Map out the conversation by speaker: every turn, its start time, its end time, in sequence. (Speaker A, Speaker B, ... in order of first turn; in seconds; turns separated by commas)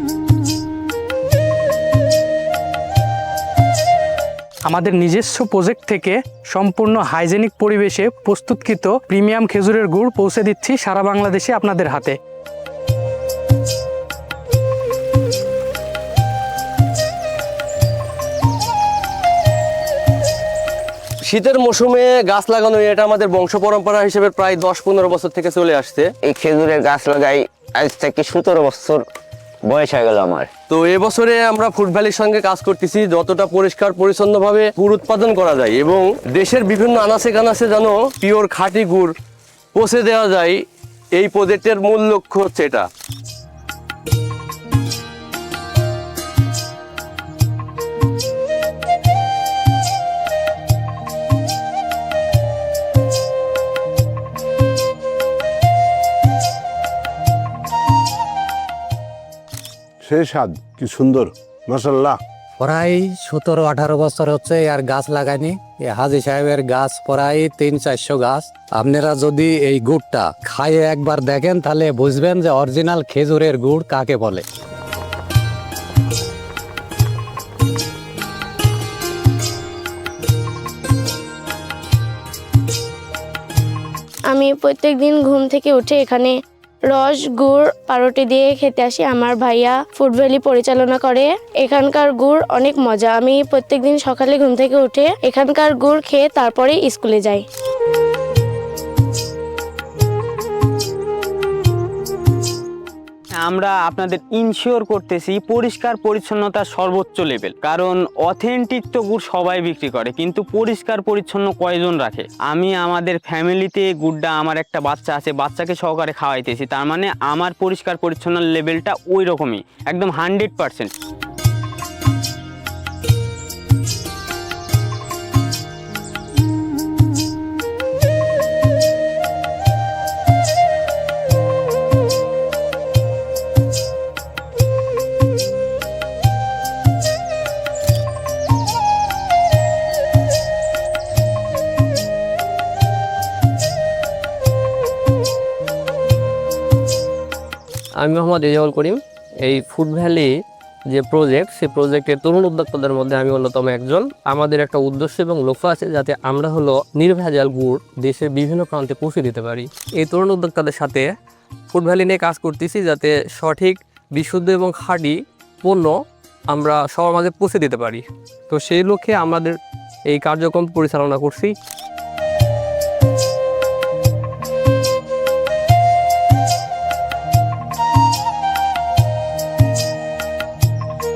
Speaker A: 4.7-12.2, Speaker B: 21.2-26.1, Speaker C: 26.2-29.0, Speaker C: 29.6-30.5, Speaker B: 30.7-39.1, Speaker B: 39.7-40.6, Speaker B: 41.2-42.9, Speaker D: 60.0-62.2, Speaker E: 62.6-74.4, Speaker F: 84.3-86.3, Speaker F: 86.9-97.4, Speaker G: 103.4-120.9, Speaker H: 148.0-150.3, Speaker H: 150.9-161.1, Speaker H: 161.7-165.9, Speaker H: 166.5-171.5